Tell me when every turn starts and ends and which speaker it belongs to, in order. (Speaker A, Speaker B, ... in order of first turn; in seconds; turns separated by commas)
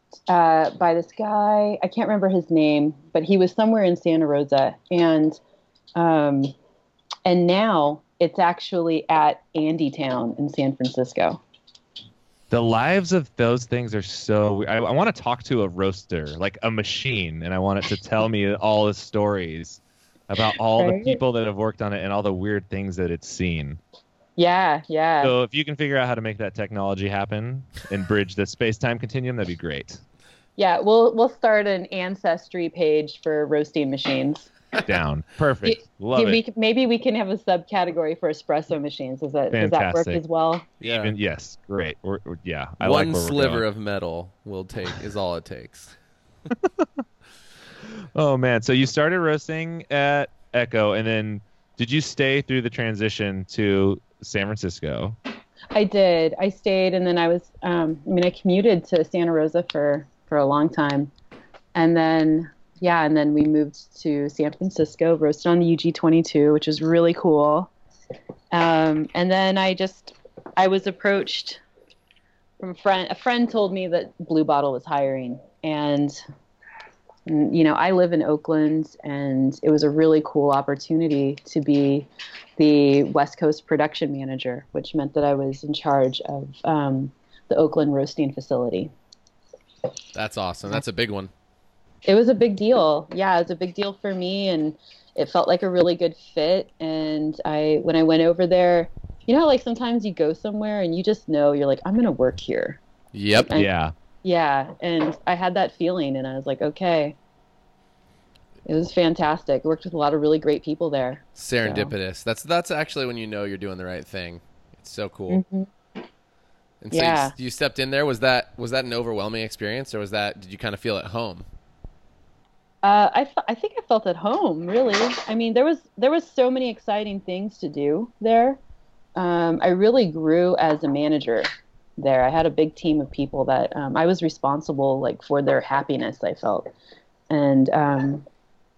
Speaker A: 0.3-5.4, Speaker A: 6.0-6.5, Speaker A: 7.2-11.4, Speaker B: 12.5-23.8, Speaker A: 20.8-21.2, Speaker A: 24.4-25.3, Speaker B: 25.2-30.0, Speaker A: 30.6-34.5, Speaker B: 34.8-36.4, Speaker A: 35.6-40.7, Speaker B: 39.5-40.2, Speaker C: 40.8-41.1, Speaker B: 40.8-43.6, Speaker C: 42.8-45.9, Speaker B: 47.9-55.2, Speaker A: 55.7-61.1, Speaker A: 61.7-67.7, Speaker A: 68.5-71.6, Speaker A: 72.6-76.2, Speaker A: 77.2-88.9, Speaker C: 90.1-91.3, Speaker A: 92.1-102.8, Speaker C: 103.1-103.5, Speaker A: 103.3-103.7, Speaker B: 103.5-103.9, Speaker A: 104.2-107.2, Speaker A: 108.7-111.9, Speaker C: 111.4-115.4, Speaker A: 115.3-115.7, Speaker C: 116.8-121.5, Speaker A: 116.9-117.3, Speaker A: 122.8-128.6, Speaker A: 129.2-131.5, Speaker A: 132.0-136.7, Speaker A: 137.3-138.2